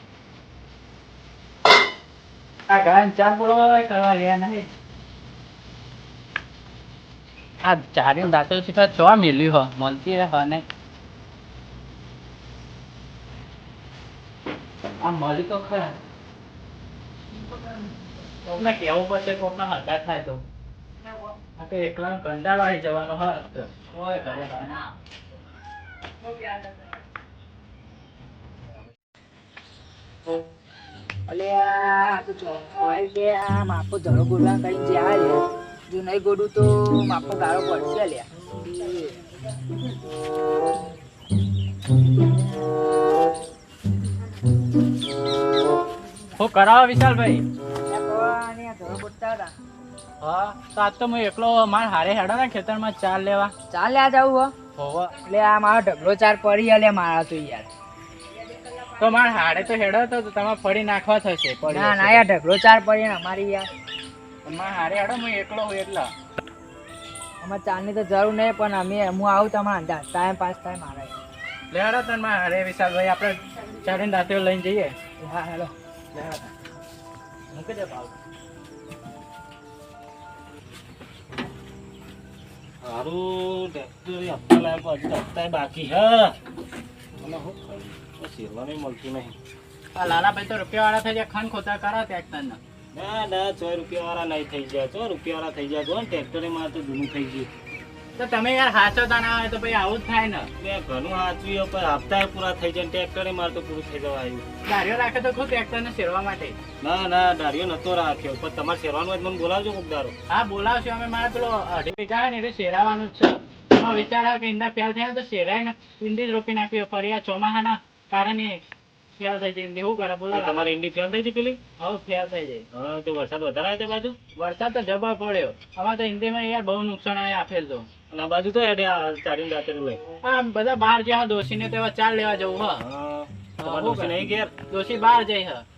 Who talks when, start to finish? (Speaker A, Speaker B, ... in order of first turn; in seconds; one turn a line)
Speaker A: 2.7-4.7
Speaker A: 7.6-10.6
Speaker A: 15.0-15.9
Speaker A: 18.4-20.4
Speaker A: 21.6-24.8
Speaker B: 31.3-39.1
Speaker A: 46.4-47.4
Speaker B: 47.9-49.5
Speaker A: 50.2-53.5
Speaker B: 53.7-54.5
Speaker A: 54.8-55.1
Speaker B: 55.2-57.7
Speaker A: 59.0-62.2
Speaker B: 61.6-63.7
Speaker A: 64.4-66.1
Speaker B: 67.4-71.1
Speaker A: 71.7-74.9
Speaker B: 75.2-75.7
Speaker A: 76.1-76.5
Speaker A: 77.5-78.1
Speaker C: 82.8-86.3
Speaker C: 87.2-89.4
Speaker A: 90.0-92.6
Speaker C: 92.9-97.5
Speaker A: 98.2-100.5
Speaker C: 100.6-104.4
Speaker A: 104.7-106.5
Speaker C: 106.8-110.1
Speaker A: 110.3-118.6
Speaker A: 119.2-120.7
Speaker C: 120.3-121.6
Speaker A: 121.8-122.6
Speaker C: 122.7-124.2
Speaker A: 124.3-127.9
Speaker C: 128.1-130.0
Speaker A: 130.2-132.8
Speaker C: 132.8-134.5
Speaker A: 133.6-134.2
Speaker A: 134.7-135.6